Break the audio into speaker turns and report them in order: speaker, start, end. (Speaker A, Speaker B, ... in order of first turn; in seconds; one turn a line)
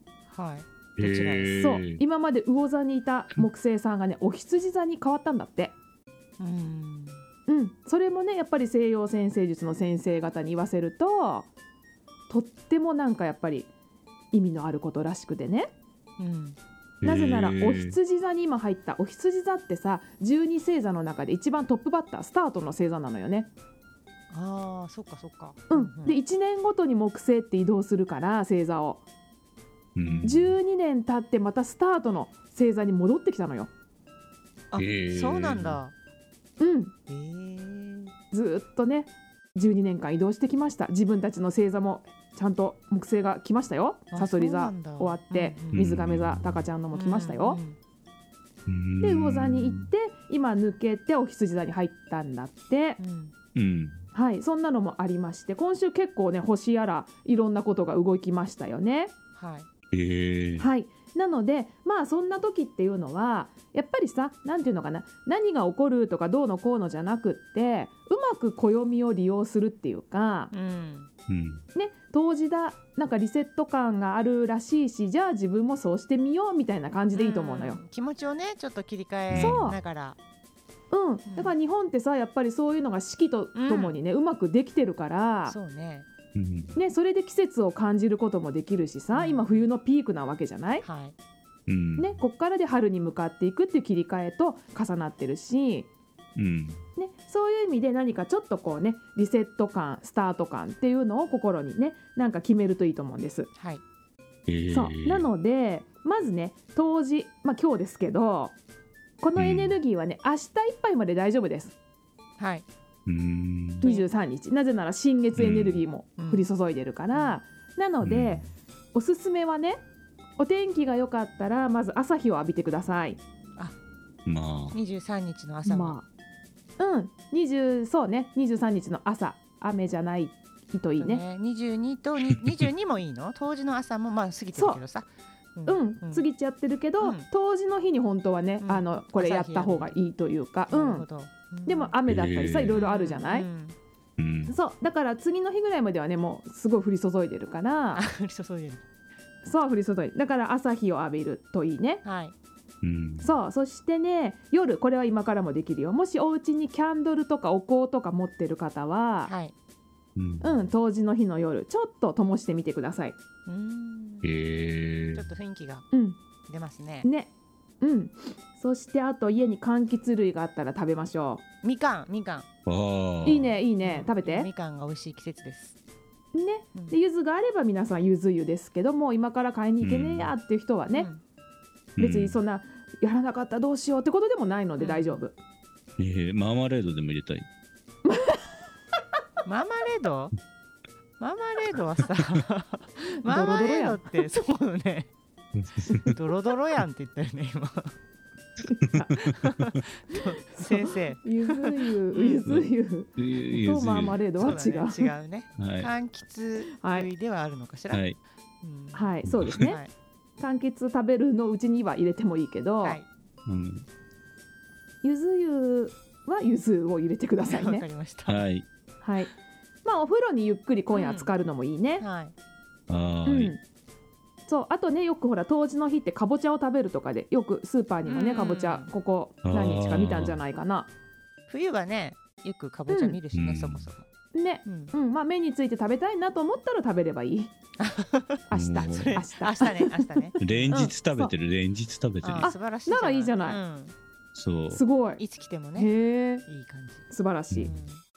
Speaker A: 0.3-1.7
Speaker B: 1.0-2.0
Speaker C: 1.5-5.8
Speaker A: 6.4-7.2
Speaker C: 7.5-11.5
Speaker C: 12.3-13.7
Speaker C: 14.3-15.7
Speaker A: 16.2-16.6
Speaker B: 17.0-18.0
Speaker C: 17.0-23.5
Speaker A: 24.3-26.2
Speaker C: 25.7-29.0
Speaker B: 29.9-30.5
Speaker A: 30.0-30.3
Speaker C: 30.2-33.7
Speaker A: 34.7-35.9
Speaker B: 34.8-35.8
Speaker C: 36.6-36.9
Speaker A: 37.1-38.1
Speaker C: 38.3-47.6
Speaker A: 44.1-46.0
Speaker B: 45.7-46.7
Speaker A: 46.9-47.8
Speaker B: 48.6-49.9
Speaker C: 49.0-53.0
Speaker A: 53.0-53.3
Speaker B: 53.5-54.0
Speaker C: 54.1-59.1
Speaker A: 59.4-59.7
Speaker B: 59.9-60.7
Speaker C: 60.6-70.5
Speaker A: 70.5-71.1
Speaker B: 71.3-71.6
Speaker C: 71.7-77.8
Speaker A: 77.1-80.2
Speaker B: 79.3-79.8
Speaker C: 79.3-79.8
Speaker C: 80.9-85.5
Speaker A: 81.3-81.5
Speaker A: 83.5-84.0
Speaker A: 85.4-86.1
Speaker B: 86.3-86.8
Speaker C: 86.8-90.8
Speaker A: 89.1-89.6
Speaker A: 90.8-91.1
Speaker B: 91.7-92.1
Speaker C: 92.0-95.9
Speaker B: 96.3-96.8
Speaker C: 97.0-103.5
Speaker A: 103.5-103.8
Speaker B: 104.5-105.3
Speaker C: 104.7-108.5
Speaker C: 109.2-111.8
Speaker B: 109.3-109.8
Speaker A: 112.4-112.6
Speaker B: 113.0-113.8
Speaker C: 113.8-119.8
Speaker A: 113.8-114.1
Speaker B: 115.3-115.8
Speaker A: 116.2-116.5
Speaker A: 117.1-117.4
Speaker B: 118.0-118.5
Speaker C: 120.4-123.2
Speaker B: 124.2-124.8
Speaker A: 124.7-125.9
Speaker C: 125.7-126.0
Speaker C: 126.8-131.2
Speaker A: 131.0-136.2
Speaker C: 134.5-134.8
Speaker C: 135.7-141.0
Speaker A: 137.0-137.2
Speaker A: 138.6-139.9
Speaker A: 140.7-141.9
Speaker C: 141.7-143.5
Speaker B: 142.1-142.8
Speaker A: 142.7-143.8
Speaker B: 144.2-144.5
Speaker C: 144.5-148.0
Speaker A: 147.9-148.8
Speaker C: 149.4-152.0
Speaker A: 152.0-152.3
Speaker B: 152.8-153.3
Speaker C: 153.2-159.3
Speaker A: 159.2-159.5
Speaker B: 160.2-160.6
Speaker C: 160.4-163.2
Speaker A: 163.5-164.3
Speaker B: 164.2-165.2
Speaker A: 165.1-165.9
Speaker C: 165.9-166.2
Speaker A: 166.5-167.1
Speaker C: 167.0-171.4
Speaker A: 171.6-172.5
Speaker B: 172.7-173.5
Speaker C: 173.2-174.5
Speaker A: 173.8-175.7
Speaker C: 176.3-181.1
Speaker B: 179.8-180.3
Speaker A: 180.9-181.2
Speaker B: 181.9-182.4
Speaker C: 182.0-185.3
Speaker A: 184.8-185.2
Speaker B: 186.0-187.4
Speaker C: 188.0-188.4
Speaker A: 189.4-190.3
Speaker A: 191.2-195.1
Speaker C: 193.2-194.2
Speaker B: 195.5-196.1
Speaker A: 196.1-197.9
Speaker A: 199.4-202.4
Speaker C: 200.5-205.1
Speaker B: 202.4-204.6
Speaker A: 204.4-209.9
Speaker B: 205.6-205.9
Speaker C: 206.8-207.1
Speaker B: 207.9-208.2
Speaker C: 208.9-209.8
Speaker B: 209.2-209.7
Speaker C: 210.4-213.0
Speaker A: 212.8-213.1
Speaker B: 213.4-213.9
Speaker C: 215.0-217.8
Speaker A: 217.4-218.4
Speaker B: 218.3-218.6
Speaker C: 219.0-219.3
Speaker C: 219.8-222.0
Speaker A: 220.9-221.3
Speaker A: 222.0-222.3
Speaker B: 222.9-223.5
Speaker C: 223.2-223.6
Speaker C: 224.4-230.9
Speaker A: 228.1-228.9
Speaker B: 229.4-230.4
Speaker A: 231.5-234.1
Speaker C: 232.9-233.2
Speaker B: 233.3-233.9
Speaker C: 234.3-237.5
Speaker A: 234.6-234.9
Speaker A: 237.8-240.8
Speaker C: 238.5-240.0
Speaker B: 238.5-239.2
Speaker B: 240.4-242.5
Speaker C: 240.7-241.3
Speaker A: 242.2-243.9
Speaker C: 242.4-243.6
Speaker B: 244.3-244.8
Speaker C: 244.7-245.2
Speaker A: 245.2-248.0
Speaker C: 245.8-246.4
Speaker C: 247.1-247.7